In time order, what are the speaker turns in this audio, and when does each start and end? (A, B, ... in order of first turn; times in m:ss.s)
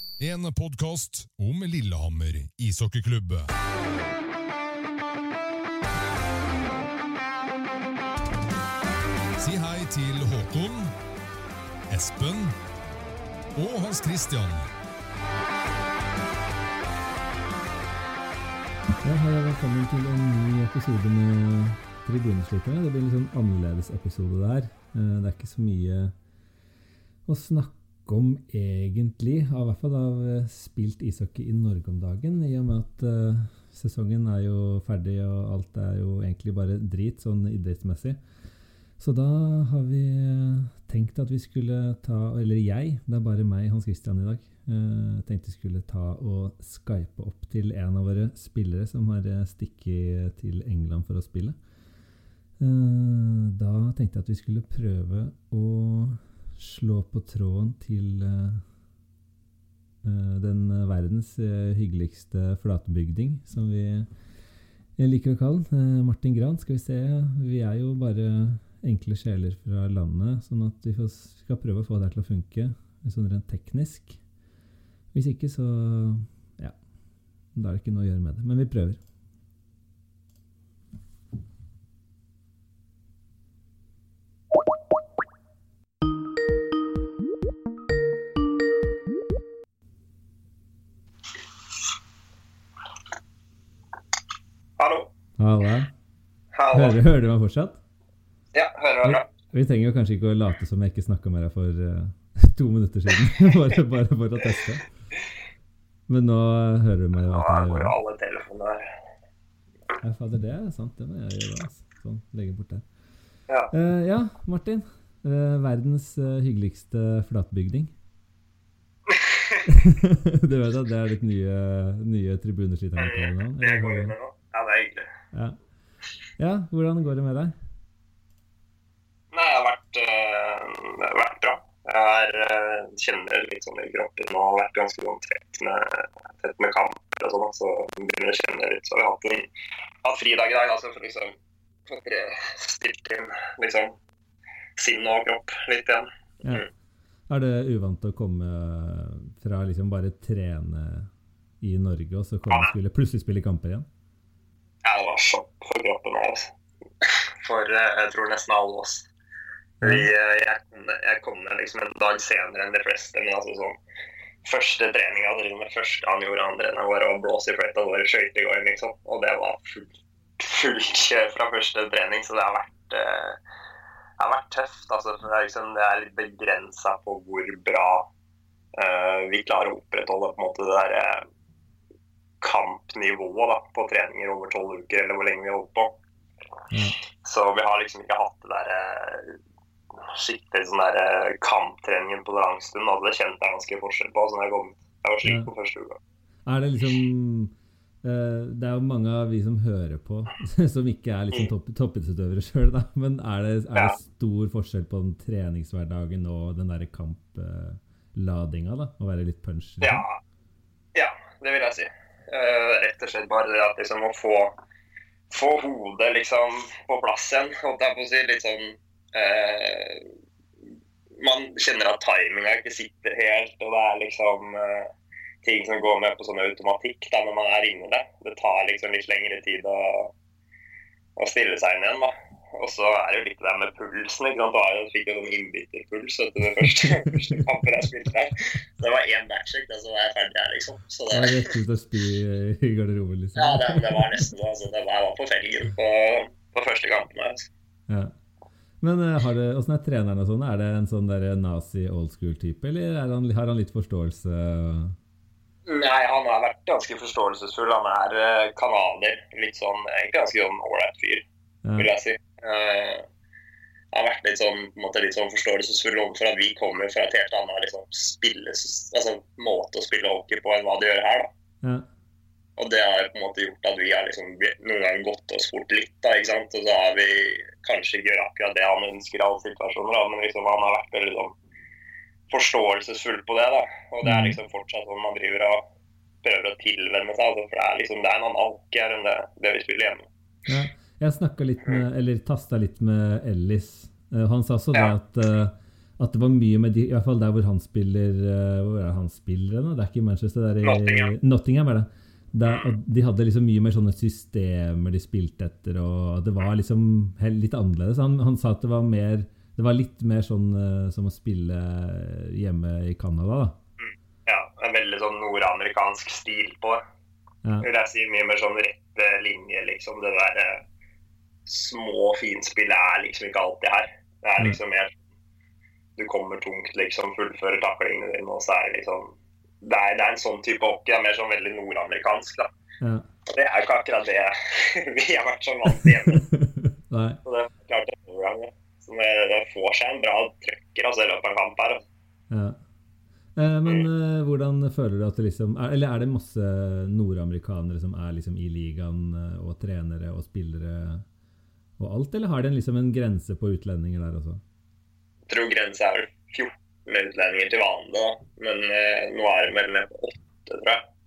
0:00.2-0:03.5 A
0:09.4-0:10.9 A
0:11.9-0:12.6 A
0:13.6-0:14.7 A
0:19.0-0:26.1 B
0:27.3-0:38.2 B
0:39.0-0:51.6 B
0:52.6-0:58.6 B
1:00.0-1:04.1 B
1:05.0-1:14.2 B
1:15.1-1:16.8 B
1:17.5-1:19.0 B
1:34.8-1:35.1 C
1:35.4-1:35.9 B
1:36.5-1:37.0 C
1:36.7-1:37.8 B
1:38.5-1:39.3 C
1:39.0-1:44.8 B
1:46.1-1:47.9 B
1:47.3-1:48.9 C
1:50.0-1:52.8 B
1:53.7-1:57.9 B
1:59.1-1:59.7 C
1:59.7-2:04.2 B
2:03.0-2:05.1 C
2:05.3-2:05.6 B
2:06.4-2:07.6 B
2:09.3-2:19.5 C
2:20.0-2:21.3 C
2:21.9-2:24.0 C
2:24.8-2:26.7 C
2:27.3-2:31.1 B
2:31.6-2:33.9 B
2:34.8-2:36.5 C
2:37.0-2:39.1 C
2:39.8-2:43.8 C
2:39.8-2:40.1 B
2:44.4-2:53.4 C
2:54.2-2:58.1 C
2:58.8-3:01.2 C
3:02.4-3:06.0 C
3:06.7-3:07.0 B
3:07.2-3:09.4 C
3:10.1-3:16.0 C
3:16.5-3:30.0 B
3:29.8-3:30.2 C
3:31.0-3:34.5 C
3:35.3-3:40.1 C
3:41.2-3:44.9 C
3:45.4-3:50.1 C
3:51.2-4:01.6 C
3:56.6-3:57.3 B
4:01.1-4:04.2 B
4:03.4-4:07.5 C
4:07.9-4:08.1 B
4:08.8-4:15.0 B
4:15.7-4:21.2 C
4:21.6-4:21.9 B
4:21.8-4:23.0 C
4:23.9-4:31.3 C
4:32.6-4:41.4 C
4:42.3-4:45.6 C
4:44.0-4:44.4 B
4:46.2-4:50.1 C
4:50.5-5:13.6 B
5:00.6-5:01.1 C
5:02.4-5:02.7 C
5:13.8-5:16.8 C
5:17.6-5:20.6 C
5:21.5-5:25.0 C
5:26.0-5:32.5 C
5:32.8-5:33.1 B
5:33.3-5:36.2 C
5:36.1-5:37.2 B
5:37.2-5:41.8 C
5:42.3-5:42.6 B
5:43.4-5:51.0 B
5:51.8-5:54.4 B
5:55.3-6:00.8 C